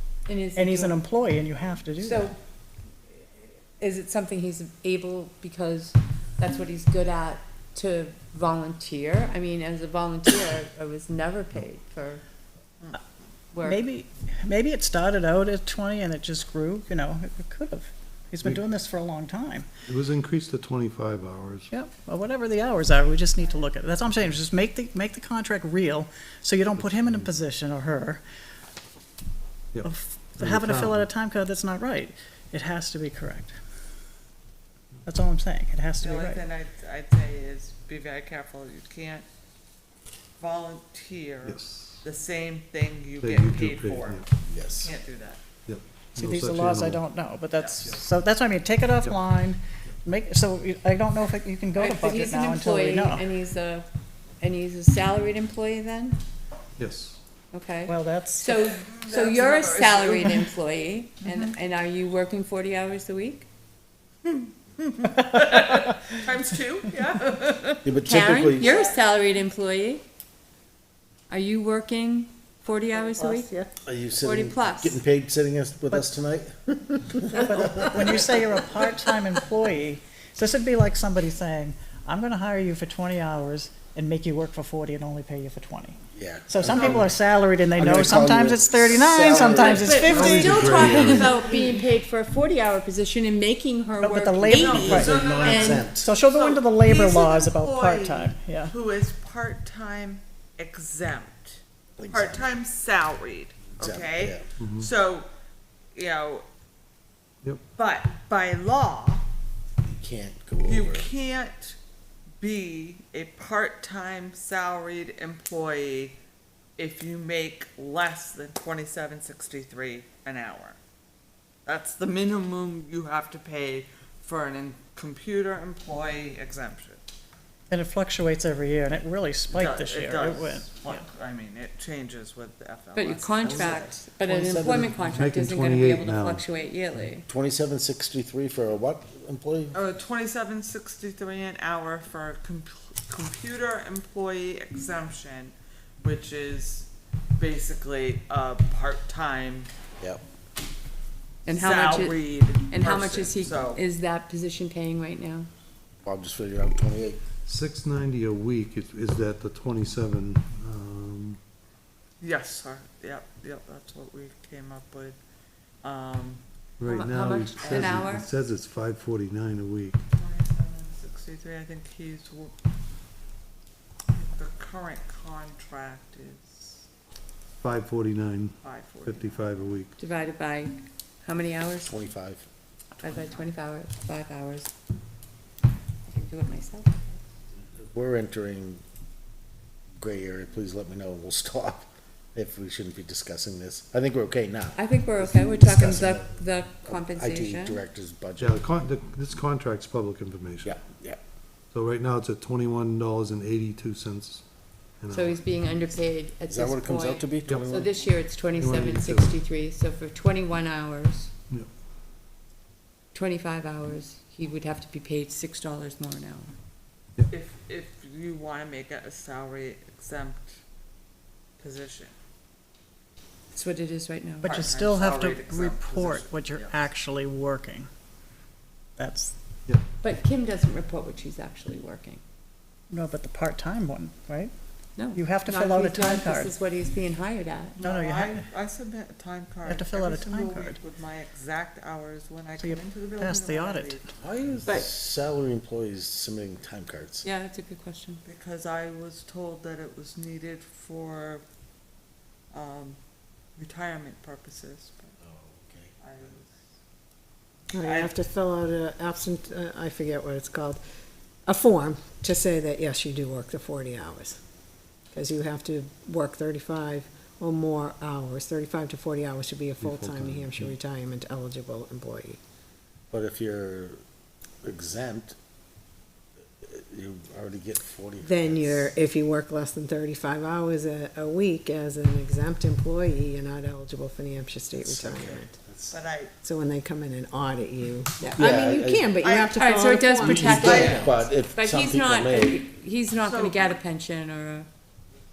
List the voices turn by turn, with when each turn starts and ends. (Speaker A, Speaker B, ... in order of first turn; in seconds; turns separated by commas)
Speaker A: 0.3-1.0, Speaker B: 0.5-2.3, Speaker A: 2.0-2.4, Speaker A: 3.8-12.2, Speaker A: 13.5-13.8, Speaker B: 13.6-19.7, Speaker C: 19.9-21.7, Speaker B: 21.7-28.2, Speaker C: 26.8-27.3, Speaker C: 29.7-31.1, Speaker B: 29.8-33.5, Speaker B: 35.0-36.4, Speaker D: 36.0-39.2, Speaker D: 40.4-45.4, Speaker C: 41.4-42.0, Speaker C: 43.2-44.2, Speaker E: 44.5-44.9, Speaker C: 45.7-47.0, Speaker B: 46.1-53.2, Speaker D: 47.6-47.9, Speaker A: 51.7-53.9, Speaker A: 54.4-56.2, Speaker C: 56.8-57.2, Speaker A: 57.5-63.5, Speaker B: 57.9-58.6, Speaker D: 58.8-60.6, Speaker D: 61.2-61.5, Speaker D: 64.2-67.9, Speaker E: 67.8-68.8, Speaker A: 68.0-70.0, Speaker D: 68.5-69.0, Speaker A: 71.3-73.5, Speaker F: 73.0-73.7, Speaker E: 73.8-78.9, Speaker A: 74.2-75.0, Speaker B: 77.4-91.1, Speaker E: 86.1-87.1, Speaker D: 86.6-87.0, Speaker E: 87.8-91.2, Speaker A: 89.6-95.9, Speaker C: 90.0-91.4, Speaker B: 94.0-95.1, Speaker D: 94.4-105.3, Speaker E: 94.7-96.1, Speaker B: 95.9-98.7, Speaker E: 102.0-102.5, Speaker E: 103.8-104.5, Speaker C: 104.6-104.9, Speaker D: 105.9-106.5, Speaker D: 107.8-109.3, Speaker E: 109.8-111.1, Speaker D: 110.6-111.8, Speaker D: 112.4-116.2, Speaker D: 116.8-120.8, Speaker D: 121.7-127.0, Speaker B: 127.7-131.0, Speaker D: 129.5-134.0, Speaker A: 132.9-137.2, Speaker E: 134.2-135.1, Speaker C: 135.1-136.4, Speaker E: 137.3-139.8, Speaker D: 139.7-149.7, Speaker A: 151.4-155.5, Speaker D: 151.5-153.8, Speaker E: 156.0-157.2, Speaker C: 157.4-161.4, Speaker D: 162.2-165.2, Speaker D: 165.8-166.4, Speaker C: 166.8-170.0, Speaker A: 166.8-168.3, Speaker D: 167.6-167.9, Speaker D: 170.1-172.5, Speaker D: 174.1-176.8, Speaker C: 177.6-179.9, Speaker D: 178.6-179.4, Speaker A: 180.0-181.9, Speaker E: 181.8-182.5, Speaker A: 183.0-184.7, Speaker A: 186.1-187.2, Speaker E: 187.8-188.8, Speaker E: 190.0-196.3, Speaker A: 194.8-197.8, Speaker E: 196.8-198.6, Speaker C: 198.4-200.8, Speaker E: 200.6-201.2, Speaker C: 201.7-204.4, Speaker C: 205.0-205.5, Speaker A: 205.1-211.3, Speaker E: 206.5-207.9, Speaker C: 208.4-209.3, Speaker A: 213.1-216.5, Speaker D: 217.3-220.6, Speaker D: 221.6-222.1, Speaker A: 223.5-224.6, Speaker D: 224.4-226.8, Speaker B: 224.5-227.9, Speaker B: 229.0-229.3, Speaker A: 230.0-232.2, Speaker B: 232.9-234.5, Speaker A: 234.9-237.8, Speaker B: 235.1-236.5, Speaker D: 237.8-244.1, Speaker B: 237.8-238.4, Speaker B: 239.7-240.8, Speaker B: 242.6-244.0, Speaker E: 244.2-247.2, Speaker A: 247.2-248.2, Speaker D: 248.2-251.4, Speaker D: 252.5-253.0, Speaker D: 253.6-255.1, Speaker E: 255.2-255.9, Speaker D: 256.0-256.6, Speaker F: 257.7-260.8, Speaker D: 257.8-258.1, Speaker F: 261.4-264.4, Speaker F: 265.1-272.4, Speaker C: 269.8-270.8, Speaker E: 273.1-274.0, Speaker E: 274.6-275.4, Speaker E: 276.6-278.9, Speaker F: 278.2-285.6, Speaker E: 284.8-285.9, Speaker D: 285.9-286.3, Speaker F: 286.4-291.2, Speaker A: 288.2-288.5, Speaker E: 288.4-289.2, Speaker D: 289.2-289.7, Speaker A: 289.5-294.7, Speaker E: 290.2-292.7, Speaker D: 290.3-291.1, Speaker D: 293.1-293.8